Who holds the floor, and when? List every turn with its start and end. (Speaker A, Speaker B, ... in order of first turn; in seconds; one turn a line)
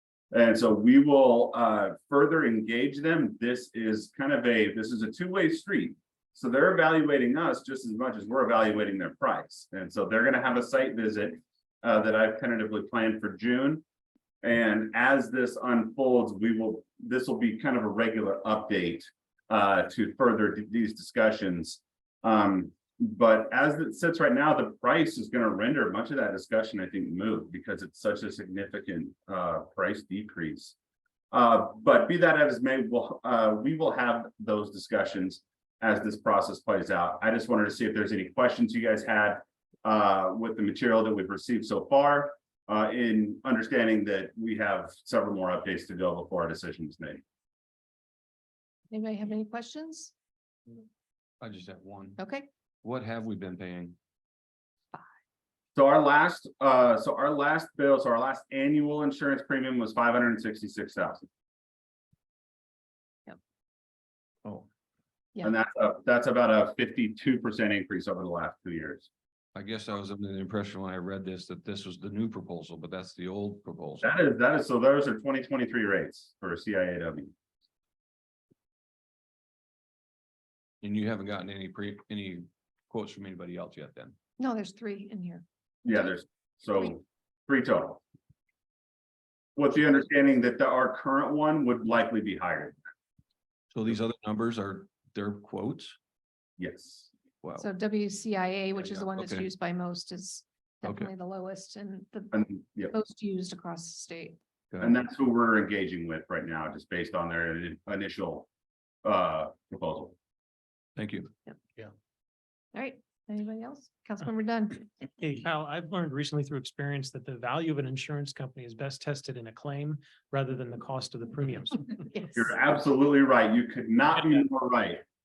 Speaker A: 0.3-13.8
Speaker A: 14.4-30.7
Speaker A: 31.3-47.2
Speaker B: 48.9-50.1
Speaker C: 51.4-52.2
Speaker B: 52.2-52.5
Speaker C: 52.8-54.0
Speaker A: 55.7-61.3
Speaker A: 65.4-69.1
Speaker C: 69.5-74.1
Speaker A: 74.0-77.3
Speaker C: 80.8-84.2
Speaker B: 84.4-86.9
Speaker A: 85.8-88.0
Speaker A: 89.5-92.8
Speaker C: 93.7-96.0
Speaker A: 96.6-97.1
Speaker C: 97.4-97.7
Speaker B: 97.6-104.4
Speaker C: 98.8-99.5
Speaker C: 100.8-101.1
Speaker A: 102.3-102.9
Speaker C: 104.7-105.0
Speaker A: 104.8-108.5
Speaker A: 109.0-110.1
Speaker C: 111.0-111.3
Speaker B: 112.7-114.9
Speaker D: 115.2-122.1
Speaker B: 122.1-122.5
Speaker A: 122.3-125.0